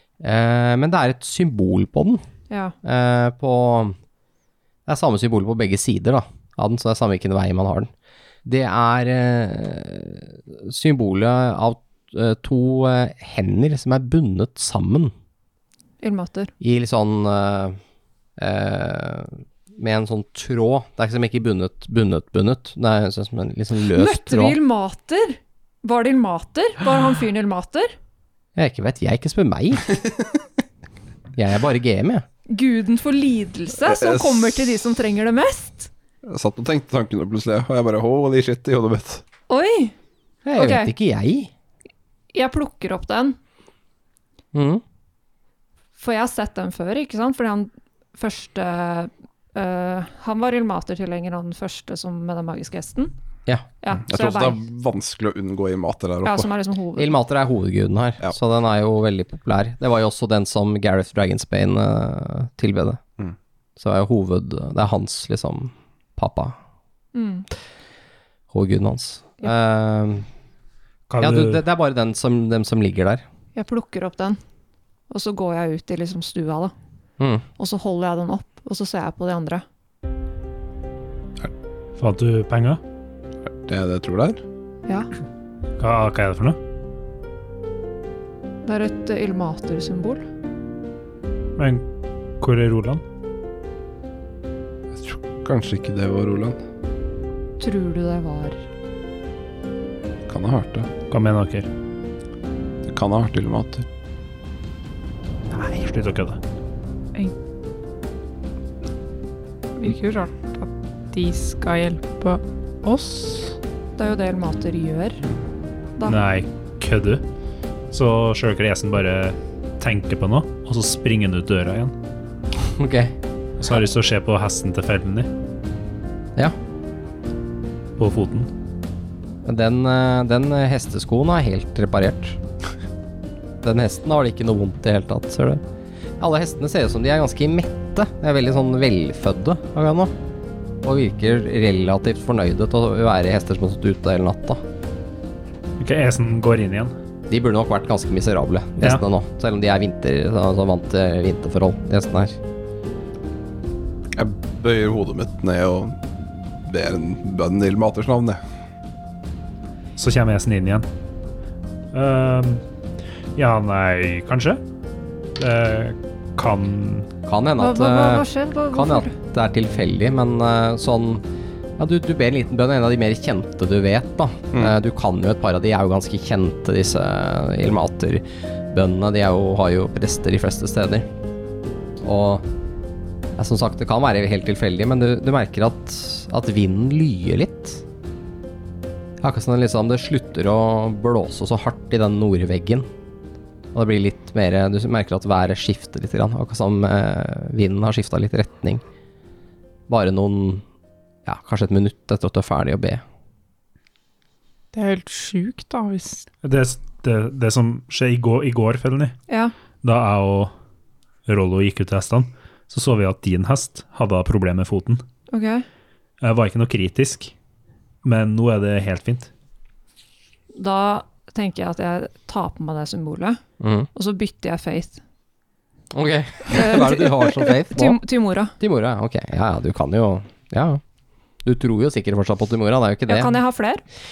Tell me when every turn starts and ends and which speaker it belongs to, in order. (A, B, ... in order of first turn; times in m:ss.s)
0:00.2-0:02.2 A
0:02.5-0:02.8 B
0:02.8-0:04.0 A
0:04.9-0:07.9 A
0:08.4-0:15.1 A
0:16.0-0:16.5 B
0:16.6-0:17.8 A
0:18.4-0:24.6 A
0:23.9-0:27.9 B
0:28.6-0:30.0 A
0:31.3-0:32.2 A
0:32.5-0:35.9 B
0:33.8-0:34.8 C
0:36.3-0:39.2 C
0:39.5-0:40.0 B
0:40.4-0:41.5 A
0:40.6-0:40.9 B
0:42.3-0:43.4 B
0:44.5-0:44.8 A
0:46.0-0:53.1 B
0:53.8-0:54.6 B
0:54.0-0:56.5 C
0:56.2-0:57.2 B
0:57.0-1:03.0 A
1:03.8-1:06.6 A
1:07.1-1:07.5 B
1:08.5-1:10.3 A
1:11.1-1:11.6 D
1:11.2-1:13.2 A
1:13.5-1:14.4 B
1:15.1-1:16.7 B
1:17.2-1:17.4 A
1:17.6-1:19.6 B
1:22.0-1:22.8 D
1:23.6-1:24.4 C
1:25.8-1:26.6 D
1:28.6-1:30.2 B
1:31.6-1:31.9 D
1:32.4-1:33.0 D
1:34.9-1:36.6 C
1:37.6-1:38.6 B
1:40.3-1:40.9 C
1:41.1-1:41.7 D
1:42.9-1:43.9 C
1:45.5-1:46.4 D
1:49.8-1:53.6 E
1:54.0-1:55.3 B
1:56.0-1:57.2 D
1:57.9-2:02.0 D
2:02.7-2:03.2 A
2:03.6-2:05.3 D
2:08.0-2:08.5 D
2:09.4-2:12.4 A
2:13.6-2:15.6 A
2:16.2-2:20.1 A
2:20.8-2:24.6 A
2:25.8-2:26.9 D
2:27.3-2:32.4 A
2:34.2-2:38.4 C
2:40.0-2:40.9 D
2:41.9-2:42.6 D
2:43.4-2:44.6 D
2:45.4-2:47.1 D
2:47.2-2:51.2 A
2:47.6-2:49.1 B
2:51.8-3:01.1 A
3:02.0-3:02.5 A
3:03.4-3:07.8 A
3:09.2-3:12.9 A
3:13.7-3:18.8 A
3:19.9-3:20.6 A
3:21.2-3:23.0 A
3:24.7-3:26.3 E
3:26.4-3:29.2 D
3:29.3-3:29.5 B
3:29.8-3:30.5 D
3:31.3-3:35.0 D
3:35.3-3:35.7 B
3:36.2-3:37.3 D
3:38.0-3:39.3 D
3:40.6-3:43.4 B
3:43.6-3:43.9 A
3:43.9-3:45.0 B
3:45.9-3:48.0 A
3:46.5-3:48.5 B
3:48.6-3:50.8 A
3:51.4-3:53.4 A
3:53.1-3:53.8 B